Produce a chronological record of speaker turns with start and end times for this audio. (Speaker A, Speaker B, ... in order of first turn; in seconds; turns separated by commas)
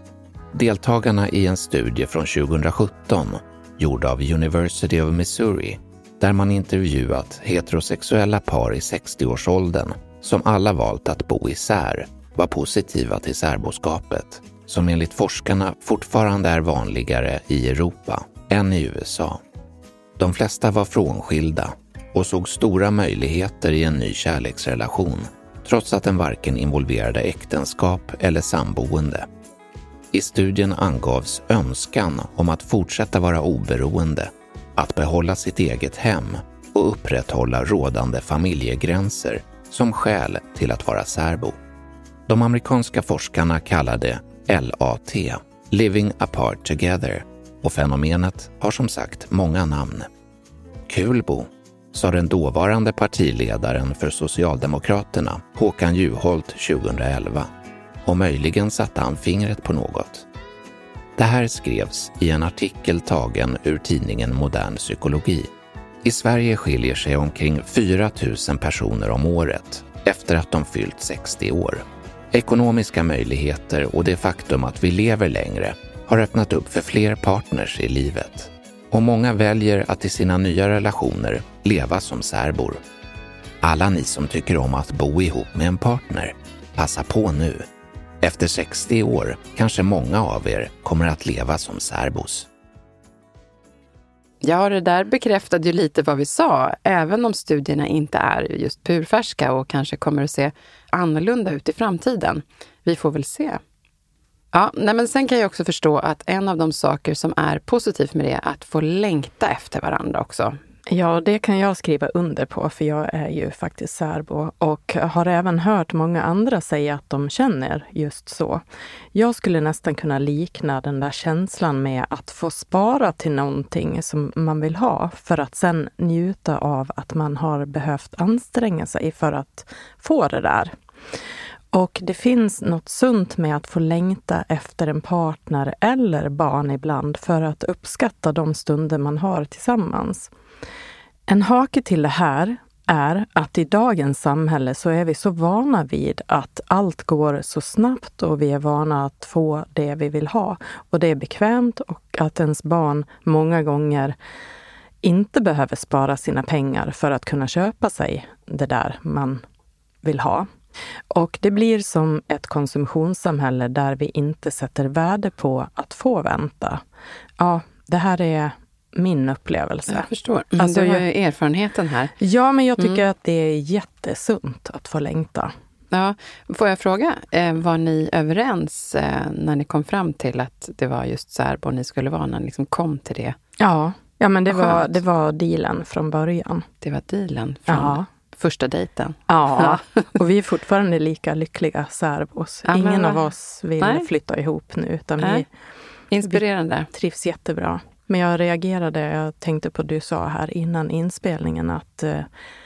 Speaker A: 0.5-19.4, Speaker A: 20.2-29.3, Speaker A: 30.1-41.5, Speaker A: 42.3-50.1, Speaker A: 50.9-57.5, Speaker A: 58.0-60.2, Speaker A: 61.1-65.5, Speaker A: 66.0-82.8, Speaker A: 83.6-87.7, Speaker A: 88.2-92.5, Speaker B: 94.4-103.6, Speaker B: 104.5-110.6, Speaker C: 110.9-118.6, Speaker C: 119.1-130.7, Speaker C: 131.7-140.3, Speaker C: 141.3-154.2, Speaker C: 155.0-159.4, Speaker C: 160.0-160.5, Speaker C: 161.1-166.8, Speaker C: 167.4-171.0, Speaker B: 169.9-172.1, Speaker C: 172.2-175.5, Speaker B: 175.9-183.3, Speaker C: 183.6-186.7, Speaker B: 184.5-185.0, Speaker B: 186.8-190.0, Speaker C: 187.7-188.1, Speaker C: 189.3-195.5, Speaker B: 192.7-193.2, Speaker B: 193.8-194.1, Speaker B: 196.1-196.9, Speaker C: 196.2-202.3